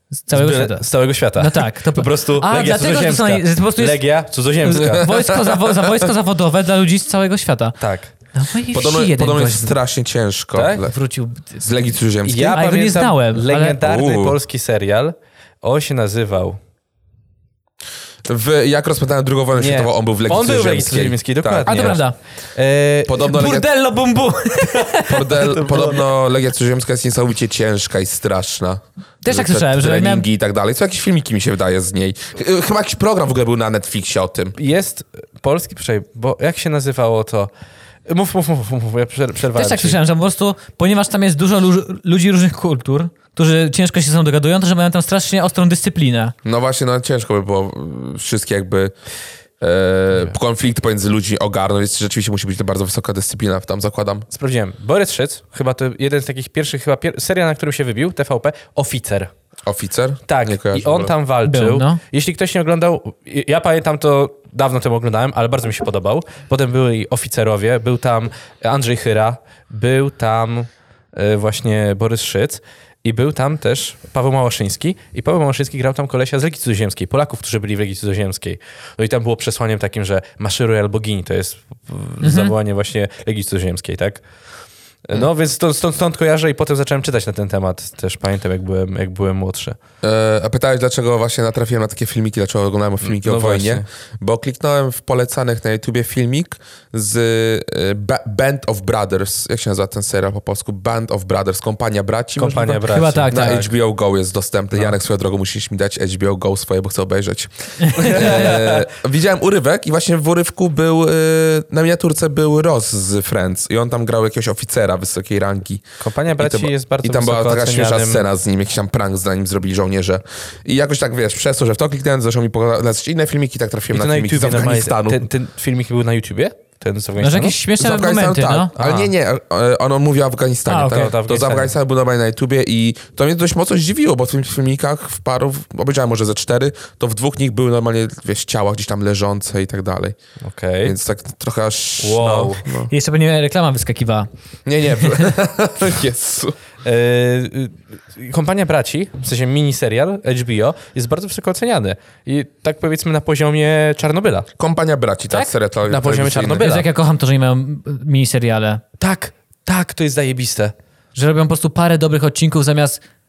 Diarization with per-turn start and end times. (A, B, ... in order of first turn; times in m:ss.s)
0:00.3-0:04.0 A
0:00.3-0:05.1 B
0:04.6-0:07.8 A
0:05.0-0:05.6 C
0:07.8-0:08.1 B
0:08.3-0:09.8 A
0:08.7-0:11.0 C
0:10.5-0:10.8 B
0:10.8-0:11.7 A
0:11.6-0:12.6 C
0:12.2-0:16.6 B
0:12.5-0:13.8 A
0:13.8-0:14.4 C
0:18.3-0:22.0 C
0:19.6-0:23.2 B
0:21.7-0:22.2 A
0:23.1-0:23.7 C
0:23.2-0:25.6 A
0:25.0-0:34.6 C
0:25.6-0:26.0 B
0:29.2-0:30.3 A
0:34.6-0:37.5 B
0:38.1-0:40.0 B
0:39.6-0:46.3 A
0:46.4-0:48.9 C
0:49.6-0:54.3 C
0:54.3-0:59.3 B
0:59.7-1:01.1 C
1:00.3-1:24.2 B
1:01.5-1:02.0 A
1:22.2-1:22.5 A
1:25.0-1:29.8 B
1:30.0-1:55.8 C
1:33.0-1:33.9 B
1:42.4-1:43.7 B
1:42.8-1:43.7 A
1:47.9-1:48.8 B
1:56.0-1:58.3 B
1:56.4-2:05.2 C
2:03.9-2:07.6 B
2:07.2-2:08.7 A
2:07.8-2:20.2 C
2:08.8-2:09.1 B
2:10.7-2:11.1 A
2:10.9-2:11.7 B
2:20.4-2:21.0 B
2:20.8-2:22.9 C
2:22.0-2:22.7 B
2:22.9-2:24.3 A
2:24.7-2:26.6 C
2:25.0-2:25.3 A
2:26.8-2:34.5 B
2:34.6-2:36.6 C
2:35.9-2:36.9 B
2:36.6-2:38.8 A
2:39.0-2:40.7 B
2:41.2-2:43.0 A